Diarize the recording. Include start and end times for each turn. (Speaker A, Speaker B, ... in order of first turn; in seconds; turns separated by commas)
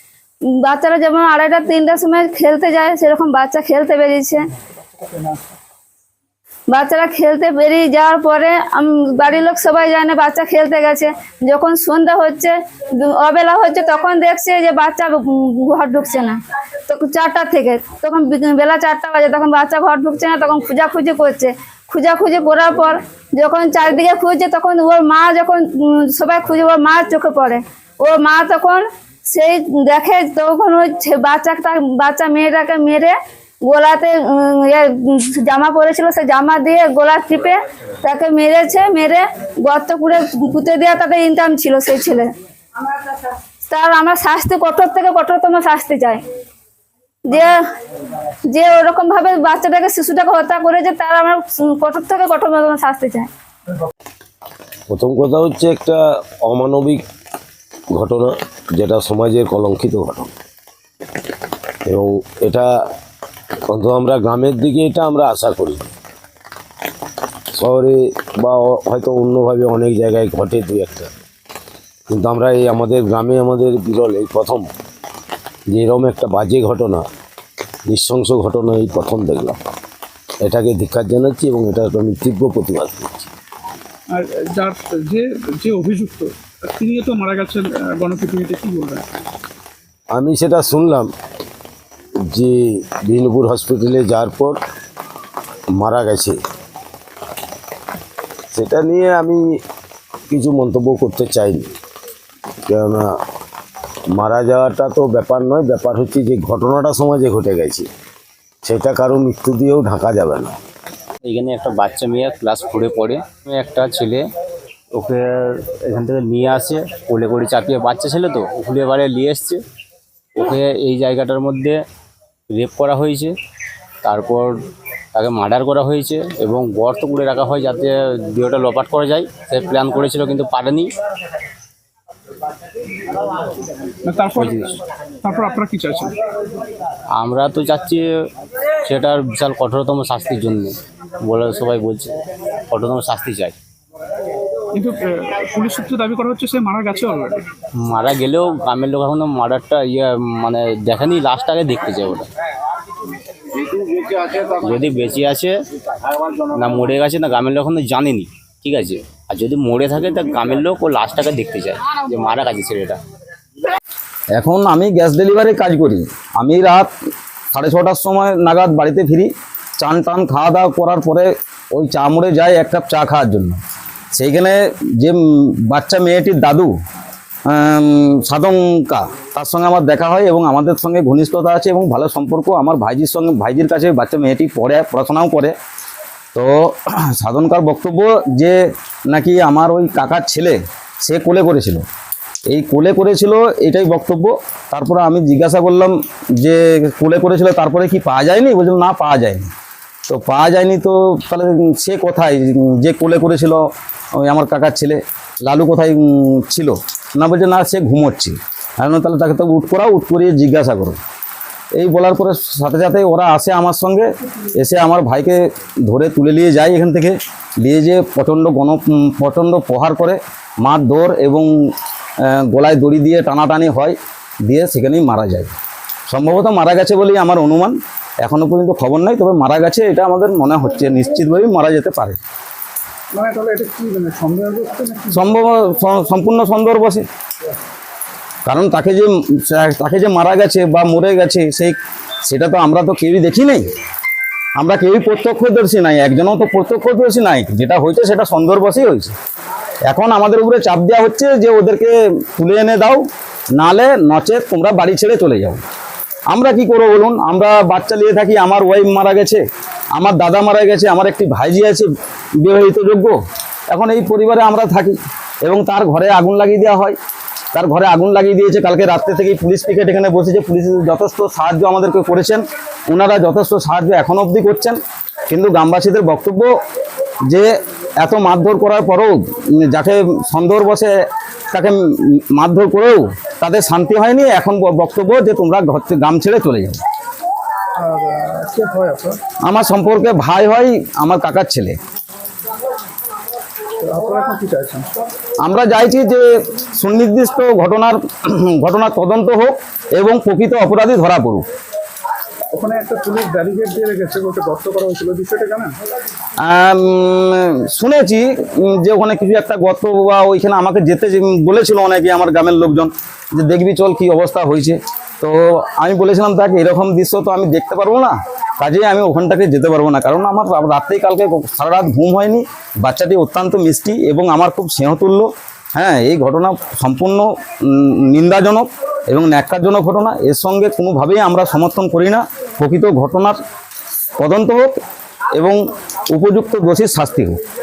Speaker A: 0.6-4.4, Speaker A: 6.7-16.4, Speaker A: 16.9-33.1, Speaker A: 33.7-42.3, Speaker A: 43.1-46.2, Speaker A: 47.2-47.6, Speaker A: 48.5-53.3, Speaker B: 54.9-57.0, Speaker B: 57.9-60.3, Speaker B: 61.9-62.7, Speaker B: 63.7-65.9, Speaker B: 67.6-71.1, Speaker B: 72.1-74.7, Speaker B: 75.7-77.0, Speaker B: 77.9-79.6, Speaker B: 80.4-83.3, Speaker C: 84.1-89.0, Speaker B: 90.1-91.1, Speaker B: 92.3-94.6, Speaker B: 95.8-96.4, Speaker B: 98.5-99.4, Speaker B: 100.3-101.7, Speaker B: 102.7-103.1, Speaker B: 104.2-107.9, Speaker B: 108.6-110.6, Speaker D: 111.2-114.3, Speaker D: 114.9-119.6, Speaker D: 120.4-121.8, Speaker D: 122.5-123.3, Speaker D: 124.0-130.9, Speaker C: 134.0-136.1, Speaker D: 134.4-134.8, Speaker D: 137.1-138.2, Speaker D: 138.8-142.2, Speaker D: 142.7-143.6, Speaker C: 144.7-147.4, Speaker D: 147.8-152.3, Speaker D: 154.3-155.6, Speaker D: 156.6-163.0, Speaker E: 164.4-166.9, Speaker E: 167.5-169.3, Speaker E: 169.8-173.6, Speaker E: 174.2-176.7, Speaker E: 177.5-185.5, Speaker E: 186.3-188.6, Speaker E: 189.1-191.8, Speaker E: 192.5-199.5, Speaker E: 200.1-203.6, Speaker E: 204.2-211.0, Speaker E: 211.8-214.1, Speaker E: 214.6-221.5, Speaker E: 222.3-225.5, Speaker E: 226.1-232.2, Speaker C: 233.2-235.3, Speaker E: 235.1-237.1, Speaker E: 238.5-241.8, Speaker E: 242.3-243.7, Speaker E: 244.6-249.1, Speaker E: 249.9-253.0, Speaker E: 253.6-255.6, Speaker E: 256.3-259.4, Speaker E: 259.9-261.9, Speaker E: 262.4-263.2, Speaker E: 263.7-267.0, Speaker E: 267.5-274.8, Speaker E: 275.3-276.5, Speaker E: 278.0-280.9, Speaker E: 281.5-286.8, Speaker C: 287.8-289.2, Speaker E: 289.4-291.8, Speaker C: 293.8-294.9, Speaker E: 295.4-301.4, Speaker C: 302.5-305.7, Speaker E: 306.4-333.4, Speaker E: 334.2-334.7, Speaker E: 335.3-335.6, Speaker E: 336.1-337.4